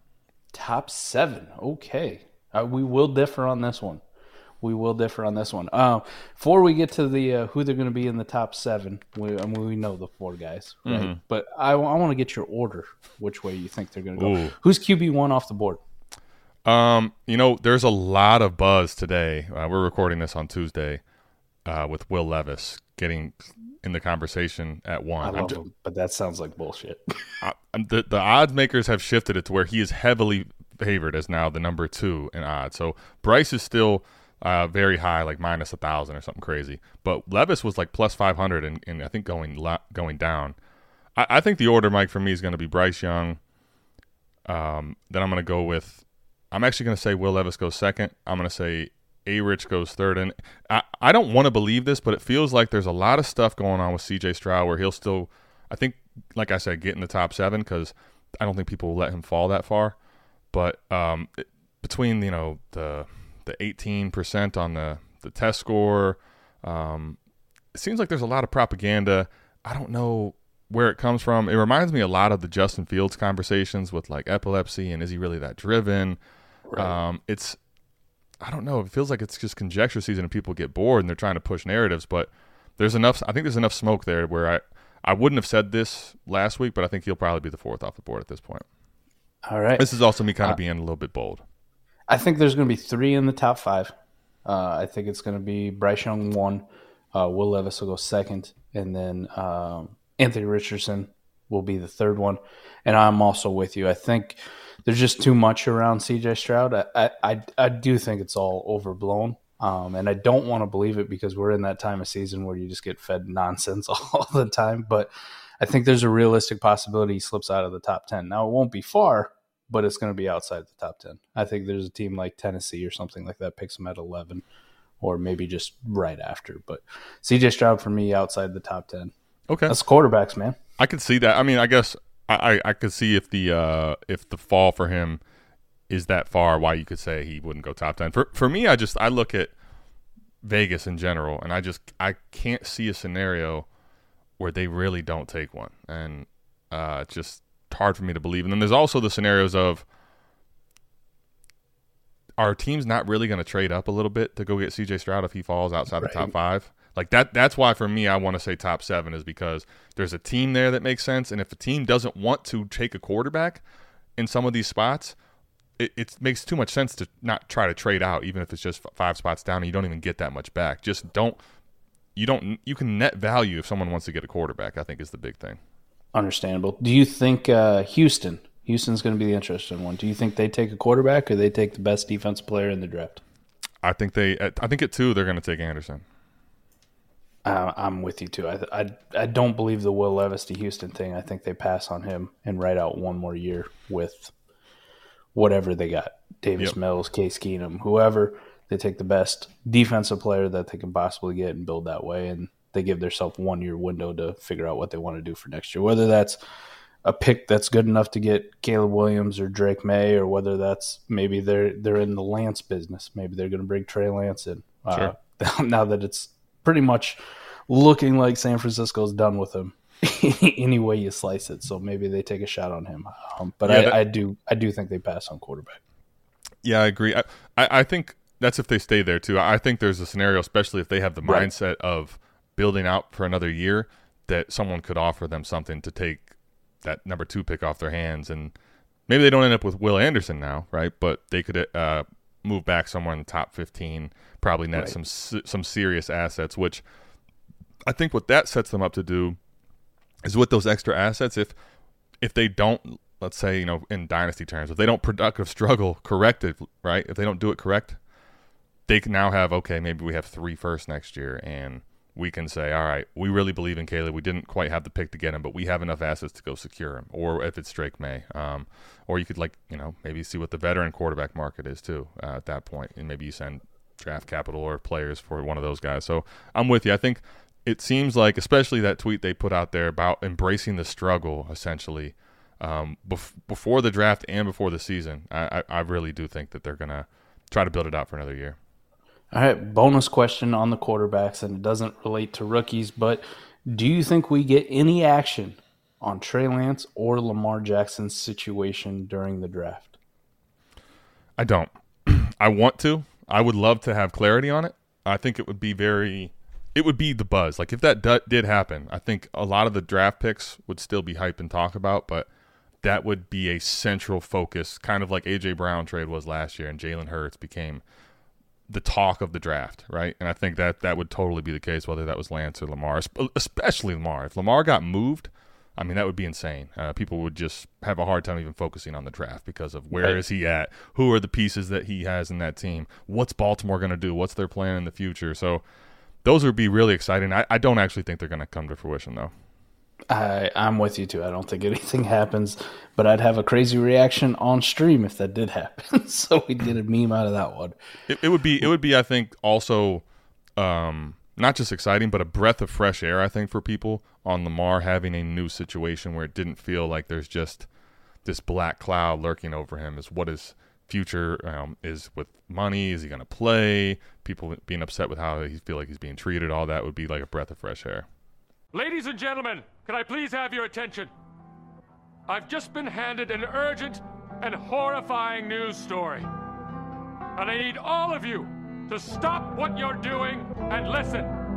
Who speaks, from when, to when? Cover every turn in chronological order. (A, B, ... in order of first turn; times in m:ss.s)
0:00.5-0:04.0 A
0:04.6-0:15.8 A
0:10.8-0:11.2 B
0:14.2-0:14.5 B
0:16.6-0:21.0 B
0:21.6-0:25.6 B
0:25.2-0:27.0 A
0:27.4-0:40.6 B
0:41.2-0:43.4 B
0:44.5-1:00.0 B
1:00.5-1:07.2 B
1:07.7-1:16.2 B
1:16.7-1:17.0 A
1:16.8-1:17.6 B
1:18.4-1:28.6 B
1:29.5-1:29.9 A
1:29.8-1:31.4 B
1:32.1-1:33.9 A
1:34.4-2:04.4 A
2:05.0-2:09.1 A
2:09.5-2:09.7 B
2:09.7-2:10.6 A
2:10.8-2:15.2 B
2:15.9-2:19.5 B
2:20.4-2:23.7 B
2:24.4-2:29.8 B
2:32.4-2:43.6 B
2:36.0-2:36.3 A
2:44.2-2:45.2 B
2:45.8-2:51.4 B
2:52.1-2:55.6 B
2:56.1-3:03.2 A
3:03.8-3:06.0 B
3:07.4-3:14.3 A
3:15.3-3:26.4 A
3:27.0-3:37.2 A
3:37.7-3:45.8 A
3:43.6-3:44.0 B
3:46.6-3:56.3 B
3:51.2-3:51.5 A
3:56.8-3:58.5 B
3:59.1-4:06.8 B
4:07.9-4:09.4 B
4:10.2-4:11.5 B
4:12.2-4:18.0 B
4:18.9-4:48.6 B
4:49.3-4:59.9 A
5:01.4-5:12.3 B
5:12.8-5:17.8 B
5:18.7-5:35.6 B
5:29.9-5:30.2 A
5:36.2-5:39.3 B
5:40.1-5:47.7 A
5:48.1-5:50.0 B
5:50.6-5:57.7 B
5:58.2-6:08.1 B
6:08.7-6:11.1 C
6:12.3-6:16.3 C
6:17.4-6:21.3 C